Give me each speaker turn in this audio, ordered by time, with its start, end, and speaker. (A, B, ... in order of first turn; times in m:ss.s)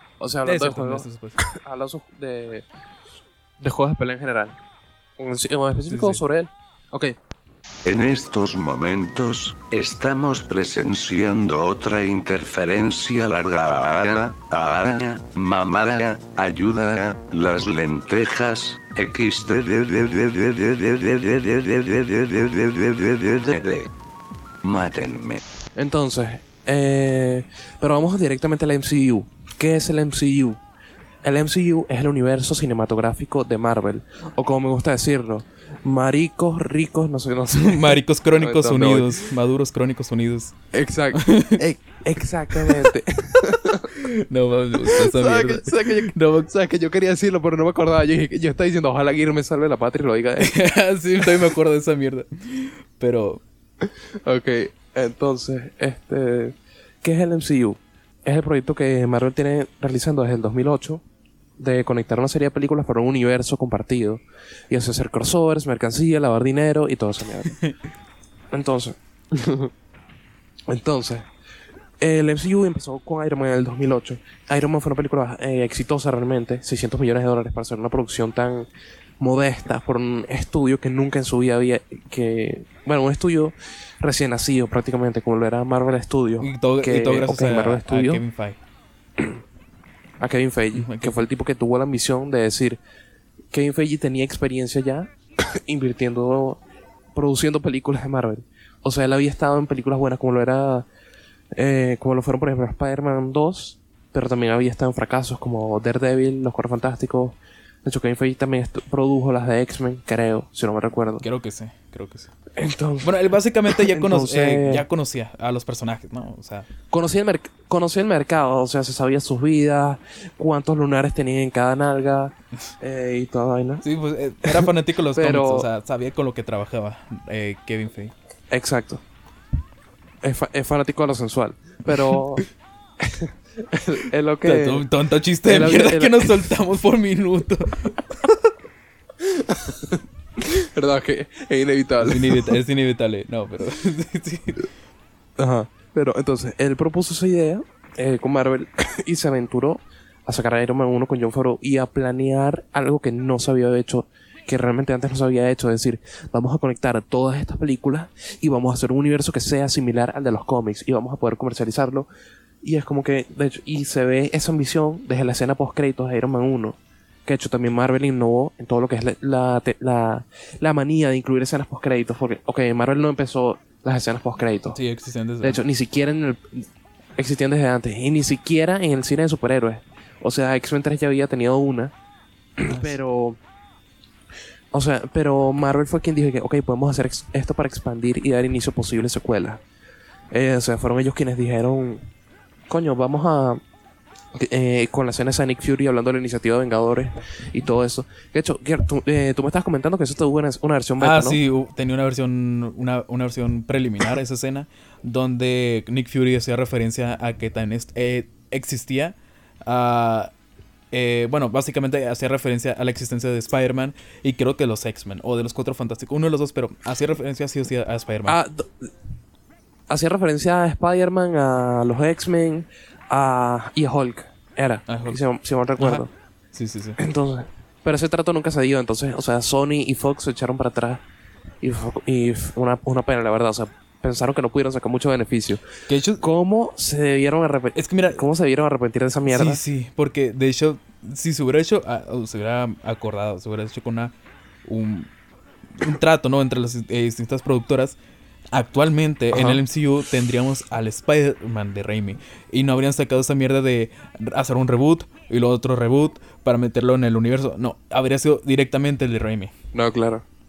0:00.2-0:02.6 A
0:00.4-0:01.4 B
0:03.6-0:04.5 A
0:05.2-0:07.1 A
0:05.9-0:06.2 B
0:07.8-0:23.9 C
0:24.6-0:25.4 C
0:25.8-0:30.6 A
0:31.2-0:39.2 A
0:37.6-0:40.5 B
0:40.7-0:44.0 A
0:41.1-0:41.6 B
0:42.5-0:42.9 B
0:44.0-0:46.5 B
0:44.8-0:50.6 A
0:50.4-0:53.4 B
0:53.8-1:01.0 A
1:01.6-1:07.6 A
1:07.4-1:07.7 B
1:08.5-1:09.7 A
1:10.7-1:11.3 A
1:12.0-1:18.7 A
1:19.2-1:28.2 A
1:26.4-1:28.6 B
1:30.2-1:32.8 A
1:30.7-1:31.2 B
1:33.5-1:36.6 A
1:37.1-1:40.9 A
1:41.5-1:51.2 A
1:51.2-1:52.4 B
1:52.5-1:54.8 A
1:53.0-1:56.7 B
1:56.9-2:03.8 A
2:03.8-2:08.1 B
2:04.4-2:05.7 A
2:08.5-2:09.0 A
2:10.2-2:12.5 A
2:11.9-2:12.4 B
2:13.0-2:14.9 A
2:14.4-2:18.5 B
2:15.4-2:16.5 A
2:19.2-2:22.6 A
2:22.0-2:24.6 B
2:25.4-2:42.1 A
2:42.6-2:54.8 A
2:54.7-2:55.6 B
2:55.4-3:01.9 A
3:02.6-3:03.4 A
3:02.6-3:03.0 B
3:04.7-3:09.6 A
3:10.3-3:12.1 A
3:12.7-3:13.6 A
3:14.3-3:21.4 A
3:21.0-3:30.3 B
3:30.9-3:38.4 B
3:38.3-3:38.9 A
3:39.9-3:46.1 A
3:44.9-3:45.2 B
3:45.8-3:47.0 B
3:47.0-3:51.0 A
3:51.6-3:55.6 A
3:55.9-3:56.2 B
3:56.2-3:59.6 A
3:57.7-3:58.2 B
3:59.2-4:05.1 B
4:05.7-4:08.0 B
4:08.5-4:19.5 B
4:09.3-4:09.6 A
4:19.7-4:20.2 A